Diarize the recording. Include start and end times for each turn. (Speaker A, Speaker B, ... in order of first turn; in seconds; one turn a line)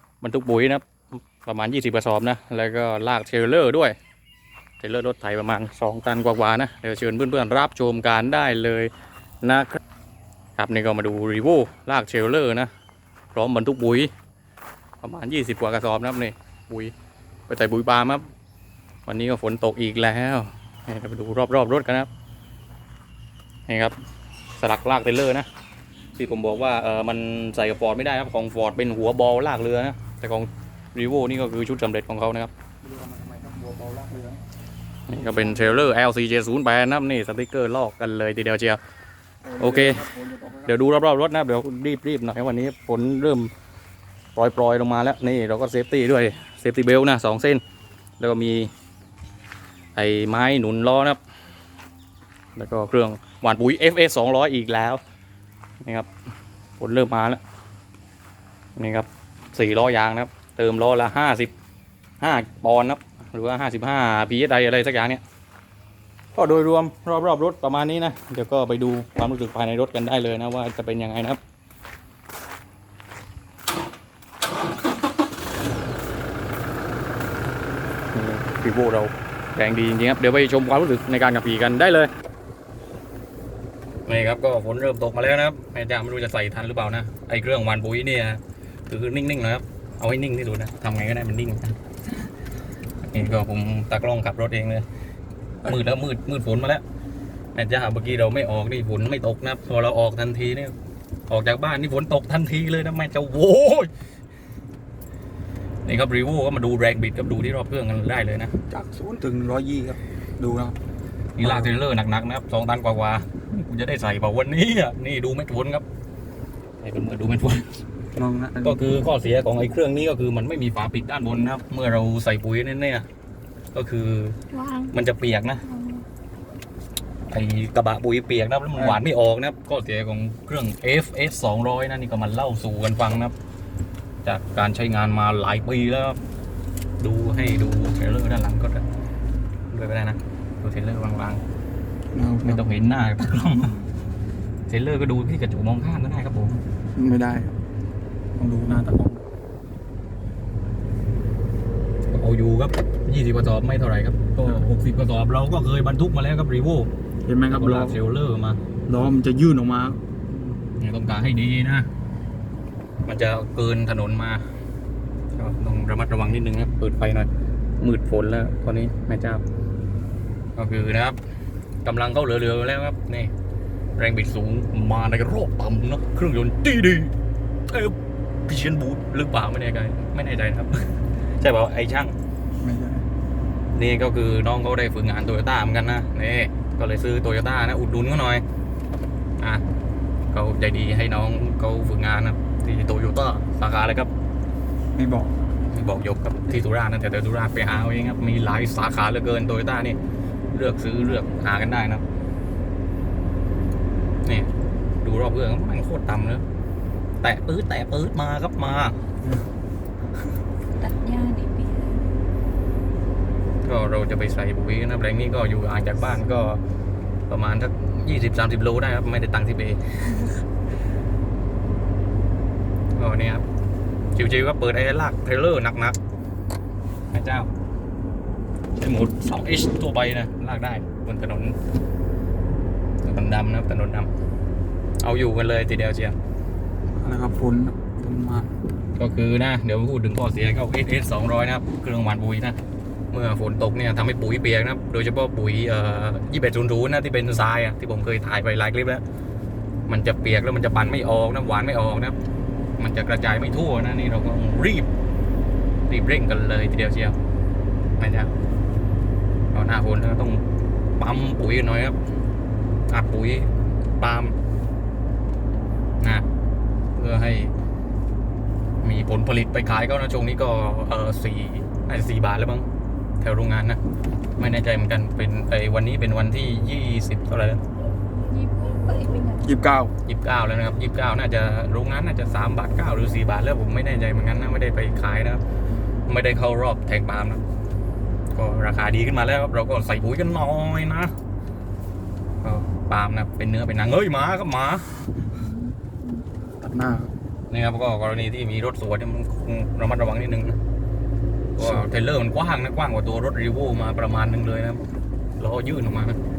Speaker A: 0.2-0.9
Speaker A: 1.4-4.0
Speaker A: 4.8-9.8
Speaker A: 10.6-12.7
Speaker A: 13.3-14.1
Speaker A: 15.0-16.9
Speaker A: 17.5-18.3
Speaker A: 19.1-22.1
Speaker A: 23.7-24.0
Speaker A: 24.6-25.5
Speaker A: 26.1-32.5
Speaker B: 32.8-34.4
Speaker A: 35.1-38.8
Speaker B: 35.2-35.8
Speaker B: 39.5-40.7
Speaker A: 39.6-40.1
Speaker A: 40.6-43.5
Speaker A: 44.4-47.6
Speaker A: 48.2-48.7
Speaker A: 50.0-51.2
Speaker A: 52.6-55.0
Speaker A: 55.8-56.1
Speaker A: 56.8-57.4
Speaker A: 58.8-61.5
Speaker A: 62.2-65.2
Speaker A: 66.3-71.4
Speaker A: 78.1-82.1
Speaker A: 84.1-91.8
Speaker A: 93.0-94.8
Speaker A: 95.6-96.8
Speaker A: 97.5-100.7
Speaker A: 101.3-103.9
Speaker A: 105.8-108.5
Speaker B: 108.7-110.8
Speaker A: 111.4-115.8
Speaker B: 111.4-111.7
Speaker A: 116.8-117.8
Speaker B: 118.2-118.8
Speaker A: 118.6-123.1
Speaker A: 123.7-124.4
Speaker C: 124.5-124.9
Speaker A: 124.9-125.7
Speaker C: 125.7-126.0
Speaker A: 127.3-133.3
Speaker A: 134.2-136.2
Speaker A: 137.0-138.8
Speaker A: 139.7-141.4
Speaker B: 142.1-142.8
Speaker A: 142.4-143.8
Speaker A: 144.7-146.6
Speaker B: 147.0-147.5
Speaker B: 148.4-148.8
Speaker A: 148.7-149.2
Speaker A: 152.1-156.9
Speaker B: 157.3-158.0
Speaker A: 157.5-158.6
Speaker B: 158.9-160.0
Speaker A: 160.8-161.9
Speaker A: 163.1-164.4
Speaker A: 165.3-167.3
Speaker A: 167.8-169.4
Speaker A: 170.6-171.2
Speaker A: 171.8-173.3
Speaker A: 174.0-177.1
Speaker A: 177.7-178.0
Speaker A: 178.5-182.2
Speaker B: 182.6-183.1
Speaker A: 183.8-188.4
Speaker A: 189.4-189.7
Speaker A: 190.3-194.1
Speaker B: 194.9-195.3
Speaker A: 195.7-200.0
Speaker A: 200.5-202.0
Speaker A: 204.2-204.5
Speaker A: 205.0-206.4
Speaker A: 207.2-209.0
Speaker B: 209.2-209.5
Speaker C: 210.8-212.1
Speaker A: 213.6-216.6
Speaker A: 217.3-220.3
Speaker A: 222.9-223.4
Speaker A: 224.2-226.0
Speaker A: 227.1-227.5
Speaker A: 228.8-231.6
Speaker A: 233.0-234.1
Speaker A: 235.0-236.2
Speaker B: 237.0-238.5
Speaker A: 239.0-242.6
Speaker A: 243.1-249.0
Speaker A: 249.9-252.2
Speaker A: 252.8-254.9
Speaker A: 255.9-257.2
Speaker A: 258.0-258.3
Speaker A: 259.5-260.4
Speaker A: 261.0-262.0
Speaker A: 262.9-264.4
Speaker A: 266.0-266.3
Speaker A: 267.0-267.5
Speaker A: 268.8-272.7
Speaker A: 273.2-273.8
Speaker A: 274.4-277.6
Speaker C: 278.2-279.4
Speaker B: 279.4-279.9
Speaker A: 280.1-285.4
Speaker A: 286.1-287.5
Speaker A: 288.4-291.1
Speaker A: 292.4-295.0
Speaker C: 295.4-296.2
Speaker B: 296.6-297.1
Speaker A: 297.5-300.6
Speaker A: 301.6-306.2
Speaker B: 301.6-301.8